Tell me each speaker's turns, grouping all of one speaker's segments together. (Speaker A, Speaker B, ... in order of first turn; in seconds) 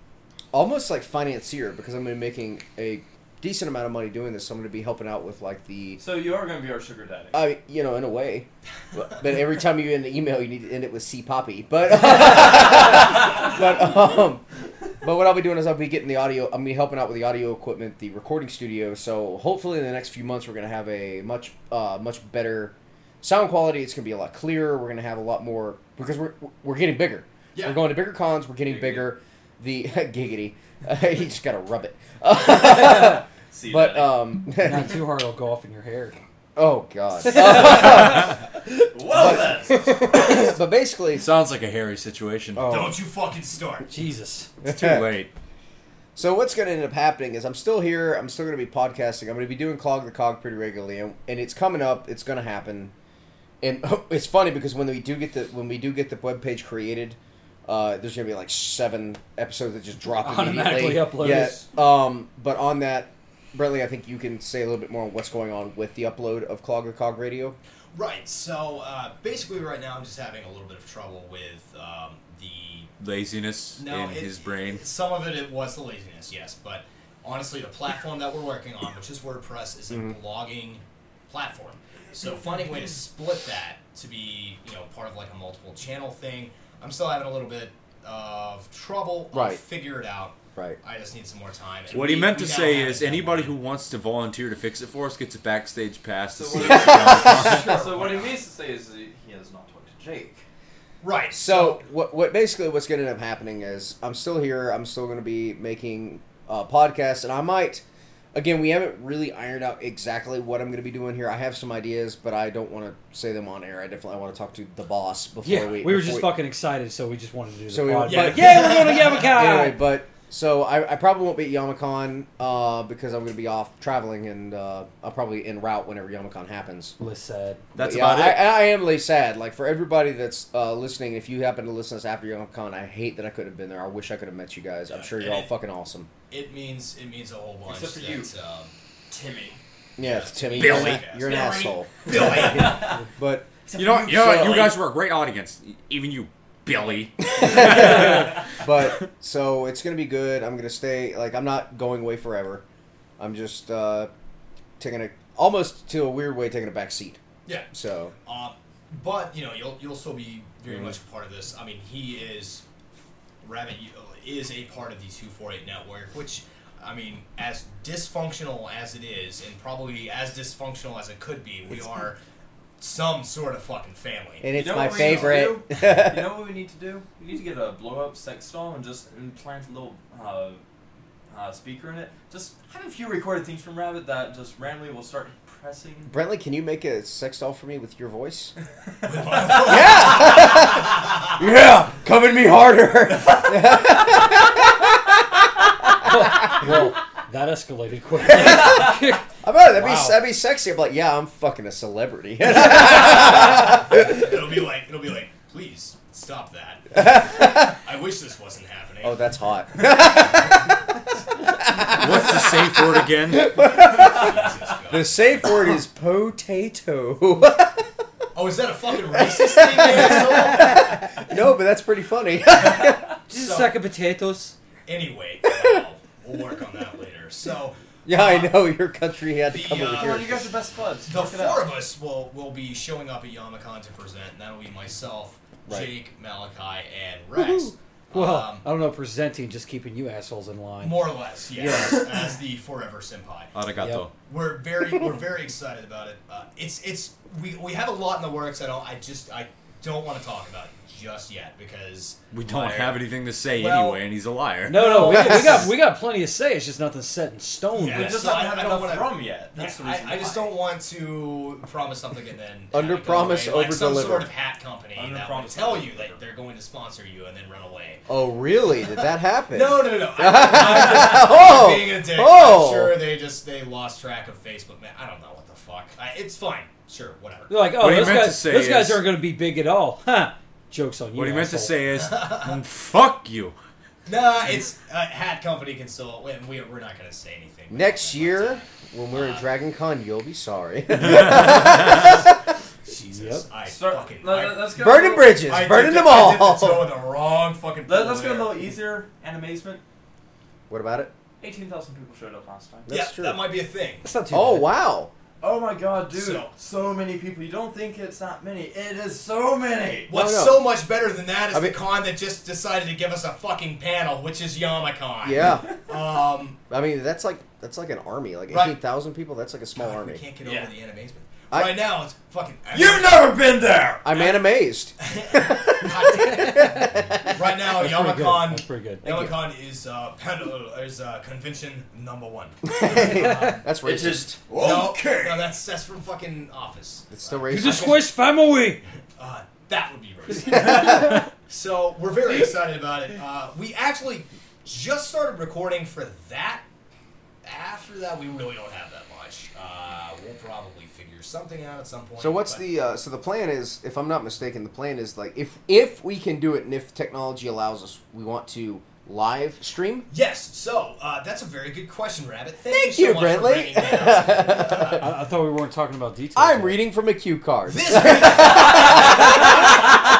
Speaker A: 0.5-6.0, 7.3-14.4, 15.0-35.0, 36.5-41.3, 42.5-43.0, 44.6-45.1, 46.1-52.9, 53.6-67.5, 79.9-80.1, 89.3-89.6, 96.5-97.6, 101.3-107.8, 108.3-116.3, 117.7-126.9, 127.8-136.1, 140.0-144.8, 147.3-152.6, 153.2-154.1, 154.8-157.2, 157.7-158.1, 174.4-176.3, 186.1-188.5, 189.5-195.9, 198.2-204.2, 207.0-207.7, 209.0-210.8, 211.4-214.3, 214.9-217.9, 219.1-223.0, 228.0-230.5, 235.7-235.9, 237.3-237.7, 254.8-255.8, 262.7-264.3, 268.1-273.0, 287.7-292.4, 294.7-296.9, 300.7-301.1, 302.9-303.4, 304.3-305.1, 310.1-310.7, 315.2-315.6, 316.7-320.2, 321.5-321.8, 324.0-327.4, 329.0-329.4, 332.6-334.4, 337.1-338.0, 340.5-341.1, 352.2-360.1, 362.7-365.0, 366.3-369.7
Speaker B: 6.0-7.4, 28.6-29.1, 33.5-34.3, 38.9-39.9, 96.3-100.4, 137.7-138.3, 139.1-139.6, 142.4-143.0, 143.7-144.7, 174.5-180.6, 181.3-186.1, 229.8-231.7, 252.4-253.0, 257.9-260.6, 264.9-266.2, 293.6-295.5, 297.9-299.8, 301.4-302.9, 305.4-310.1, 320.4-320.7, 322.7-324.4, 333.8-335.5, 368.4-369.8
Speaker C: 27.5-27.8, 39.8-40.4, 42.7-43.9, 67.9-72.9, 73.8-93.5, 97.2-98.4, 101.0-101.8, 118.0-119.3, 134.9-135.5, 136.3-138.7, 140.0-142.9, 158.2-162.6, 163.4-172.2, 172.8-175.4, 189.0-191.2, 203.5-209.2, 214.0-215.5, 218.3-221.1, 223.3-223.7, 224.9-228.6, 229.5-230.4, 231.1-238.7, 240.8-243.5, 244.2-252.2, 253.5-254.0, 254.7-255.7, 257.7-268.1, 268.8-277.5, 281.9-282.6, 284.1-289.4, 292.9-294.8, 295.4-298.6, 302.9-304.1, 306.1-306.5, 310.1-316.6, 318.5-318.8, 319.8-323.3, 325.0-333.7, 334.5-338.1, 339.2-346.6, 347.4-352.7, 360.1-365.1, 367.7-369.9
Speaker D: 34.5-36.2, 37.2-38.3, 43.9-44.5, 60.1-61.6, 115.4-119.8, 127.0-127.7, 196.0-200.2, 223.3-224.5, 238.1-242.1, 243.8-244.0, 254.7-258.3, 277.5-281.8, 292.9-293.5, 304.0-304.7, 326.3-326.9, 327.7-329.1, 337.5-338.8, 340.6-341.2, 364.9-366.8
Speaker E: 41.1-42.8, 44.6-45.3, 73.0-74.8, 91.9-97.7, 127.7-128.5, 143.7-149.0, 211.8-213.5, 243.5-244.1, 252.3-254.9, 277.7-279.0, 281.1-283.6, 290.9-291.8